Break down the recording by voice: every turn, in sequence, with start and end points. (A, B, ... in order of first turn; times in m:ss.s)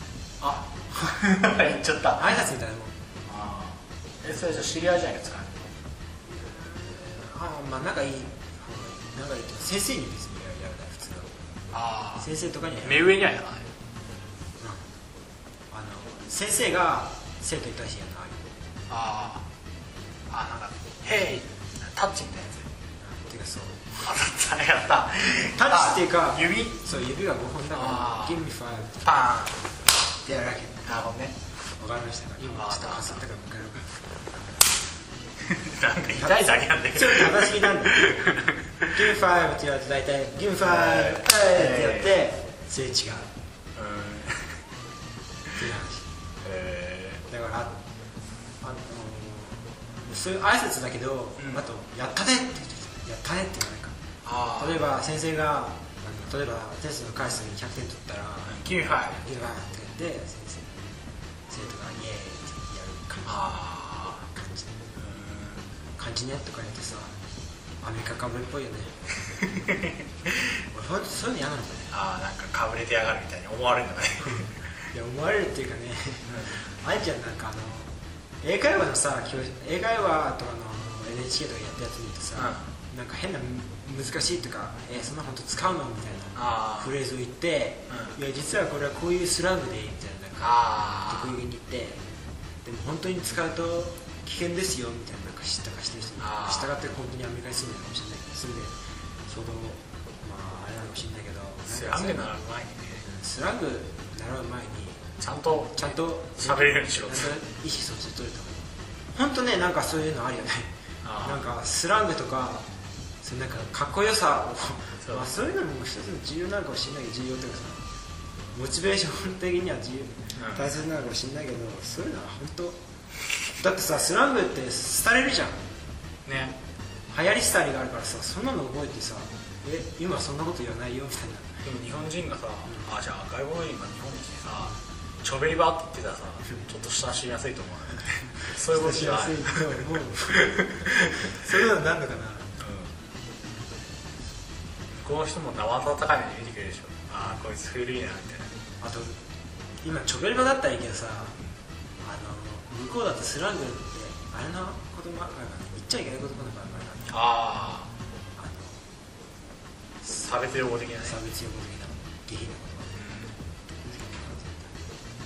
0:00.4-0:02.3 A
0:02.2-0:02.9 B
0:03.3-0:05.7 A
0:06.3-0:11.3 B
0:11.7-0:12.3 A
0:12.2-0:13.2 B
0:12.8-0:13.7 A
0:14.6-0:14.9 B
0:15.7-0:18.5 B
0:18.9-0:19.5 A
0:20.3-0:22.7 A
0:23.0-0:23.9 B
0:24.0-0:26.9 A
0:25.5-0:29.1 B
0:27.7-0:28.5 A
0:29.0-0:29.6 A
0:30.2-0:30.9 B
0:30.8-0:31.4 A
0:31.8-0:33.9 B
0:32.5-0:33.2 A
0:35.4-0:38.9 A
0:36.1-0:38.3 B
0:38.9-0:43.3 B
0:40.6-0:42.2 A
0:43.8-0:44.6 A
0:45.6-0:46.1 B
0:46.4-0:47.2 A
0:47.3-0:47.8 B
0:48.6-0:54.0 B
0:51.4-0:51.6 A
0:54.2-0:54.8 A
0:54.6-1:00.7 B
0:58.5-0:59.3 A
1:01.5-1:03.5 B
1:03.3-1:04.3 A
1:04.3-1:04.8 B
1:05.0-1:05.7 A
1:06.0-1:07.2 B
1:07.8-1:09.0 B
1:09.4-1:10.6 A
1:10.7-1:11.9 B
1:11.9-1:14.7 A
1:14.9-1:17.9 B
1:16.3-1:16.6 A
1:18.4-1:32.0 B
1:22.4-1:22.7 A
1:26.4-1:27.0 A
1:27.9-1:28.2 A
1:30.4-1:31.4 A
1:32.6-1:38.8 B
1:36.2-1:36.7 A
1:39.3-1:42.3 B
1:41.6-1:43.0 A
1:43.0-1:45.0 B
1:45.2-1:47.4 A
1:45.7-1:52.7 B
1:51.0-1:51.4 A
1:53.2-1:57.9 B
1:55.0-1:55.3 A
1:58.5-2:02.8 B
2:00.4-2:00.7 A
2:03.6-2:05.6 B
2:06.2-2:06.6 A
2:07.1-2:11.5 B
2:11.6-2:21.4 A
2:18.7-2:22.5 B
2:22.6-2:23.0 A
2:24.9-2:28.5 A
2:28.8-2:29.2 B
2:29.8-2:31.4 B
2:32.0-2:37.2 B
2:37.1-2:37.9 A
2:38.4-2:38.8 B
2:40.2-2:41.2 A
2:41.0-2:43.0 B
2:43.0-2:43.3 A
2:43.8-2:44.7 B